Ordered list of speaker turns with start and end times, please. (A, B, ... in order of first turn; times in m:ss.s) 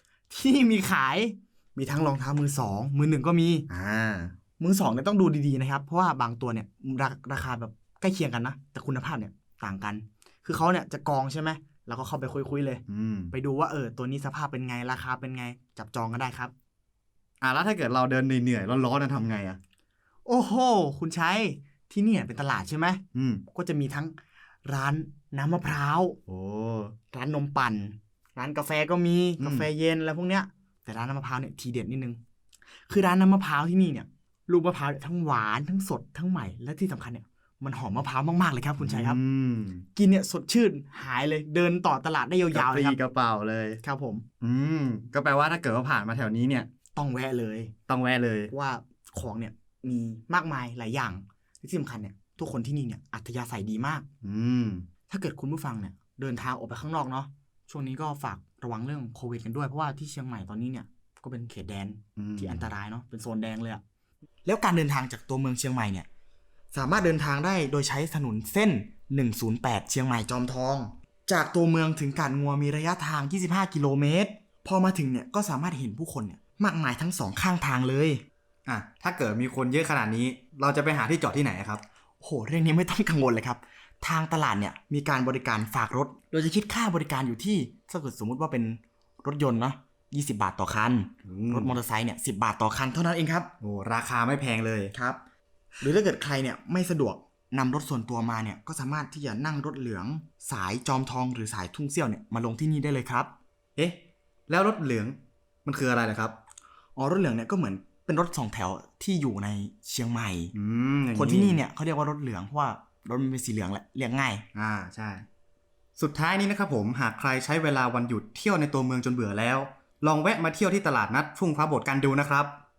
0:00.3-0:03.7 A
0:03.7-0:04.3 B
0:04.6-0:16.5 A
0:12.9-0:13.3 B
0:17.4-0:19.6 B
0:20.3-0:23.0 A
0:23.2-0:23.4 B
0:23.5-0:26.2 A
0:26.3-0:26.9 B
0:27.1-0:32.2 A
0:32.8-0:39.2 A
0:38.8-0:39.8 B
0:40.0-0:43.0 A
0:42.6-0:43.8 B
0:43.8-0:44.2 A
0:44.4-0:46.7 B
0:46.9-0:47.7 A
0:47.9-0:48.5 B
0:48.5-0:54.1 A
0:54.2-0:54.9 B
0:55.1-1:03.8 A
1:02.2-1:02.6 B
1:04.4-1:06.1 A
1:06.7-1:18.2 A
1:18.7-1:21.8 B
1:22.2-1:33.5 A
1:31.2-1:31.6 B
1:33.6-1:34.9 B
1:34.9-1:35.2 A
1:35.8-1:43.3 A
1:44.5-1:45.1 B
1:45.7-1:46.3 B
1:47.0-1:50.5 A
1:50.5-1:51.6 B
1:51.1-1:54.4 A
1:54.6-1:55.2 B
1:56.0-2:02.5 B